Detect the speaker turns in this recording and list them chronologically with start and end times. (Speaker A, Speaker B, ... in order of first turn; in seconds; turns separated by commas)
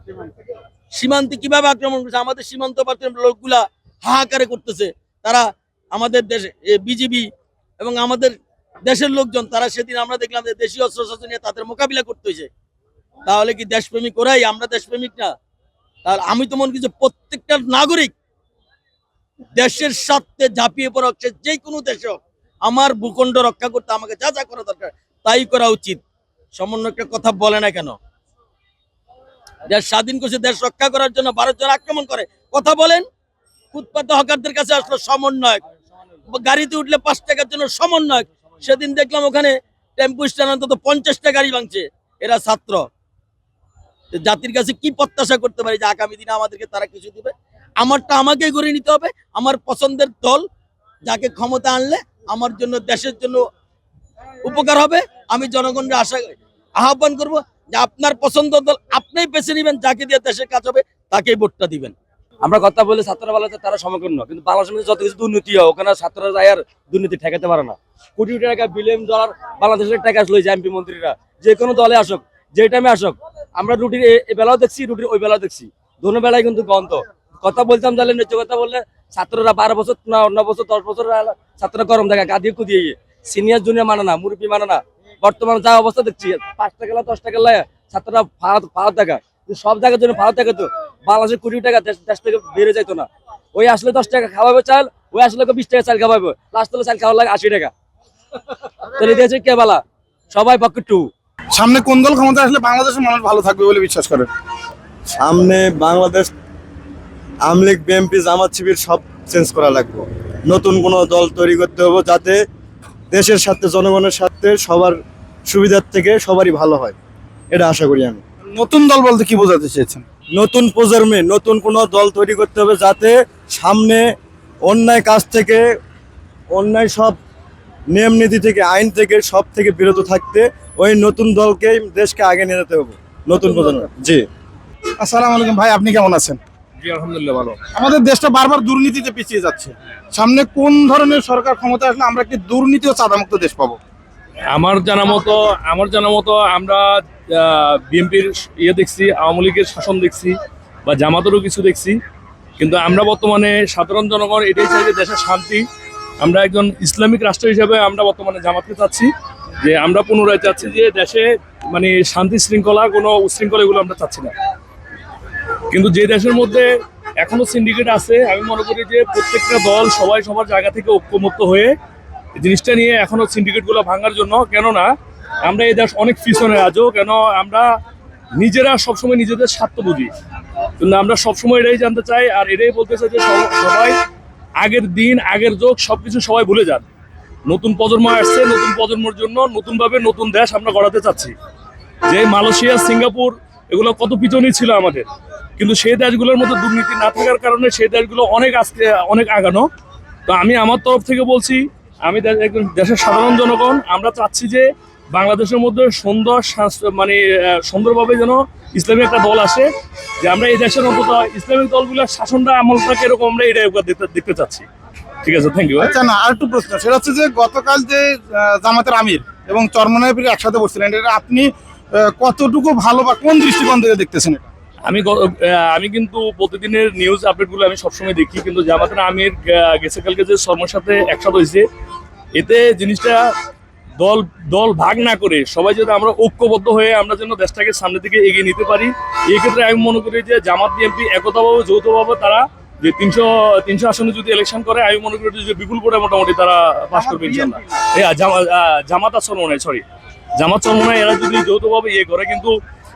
Speaker A: 1.0-7.3, Speaker A: 7.8-8.3, Speaker A: 8.9-12.5, Speaker A: 13.3-15.3, Speaker A: 16.1-18.1, Speaker A: 19.6-26.0, Speaker A: 26.6-28.0, Speaker A: 29.7-33.0, Speaker A: 33.7-35.6, Speaker A: 36.3-42.8, Speaker A: 44.2-50.4, Speaker A: 51.1-53.4, Speaker A: 54.5-62.0, Speaker B: 62.4-97.7, Speaker B: 98.9-101.1, Speaker C: 101.5-104.3, Speaker D: 105.1-106.3, Speaker D: 107.5-112.4, Speaker D: 113.1-117.0, Speaker D: 117.5-118.2, Speaker C: 118.6-120.0, Speaker D: 120.4-124.1, Speaker D: 124.7-125.7, Speaker D: 126.5-127.2, Speaker D: 127.9-134.2, Speaker C: 135.0-136.4, Speaker E: 136.8-137.6, Speaker C: 137.7-143.8, Speaker E: 144.5-150.3, Speaker E: 150.9-152.0, Speaker E: 152.6-155.6, Speaker E: 156.2-159.1, Speaker E: 159.6-164.3, Speaker E: 165.7-166.7, Speaker E: 167.2-171.7, Speaker E: 172.4-174.9, Speaker E: 175.4-177.7, Speaker E: 178.4-180.1, Speaker E: 180.8-183.9, Speaker E: 184.6-186.9, Speaker E: 187.5-191.3, Speaker E: 192.1-195.1, Speaker E: 195.6-199.7, Speaker E: 200.3-209.7, Speaker E: 210.2-214.7, Speaker E: 215.2-215.9, Speaker C: 215.8-224.5, Speaker E: 224.9-231.6, Speaker E: 232.4-233.2, Speaker E: 234.0-249.8, Speaker C: 246.9-247.9, Speaker E: 250.4-252.5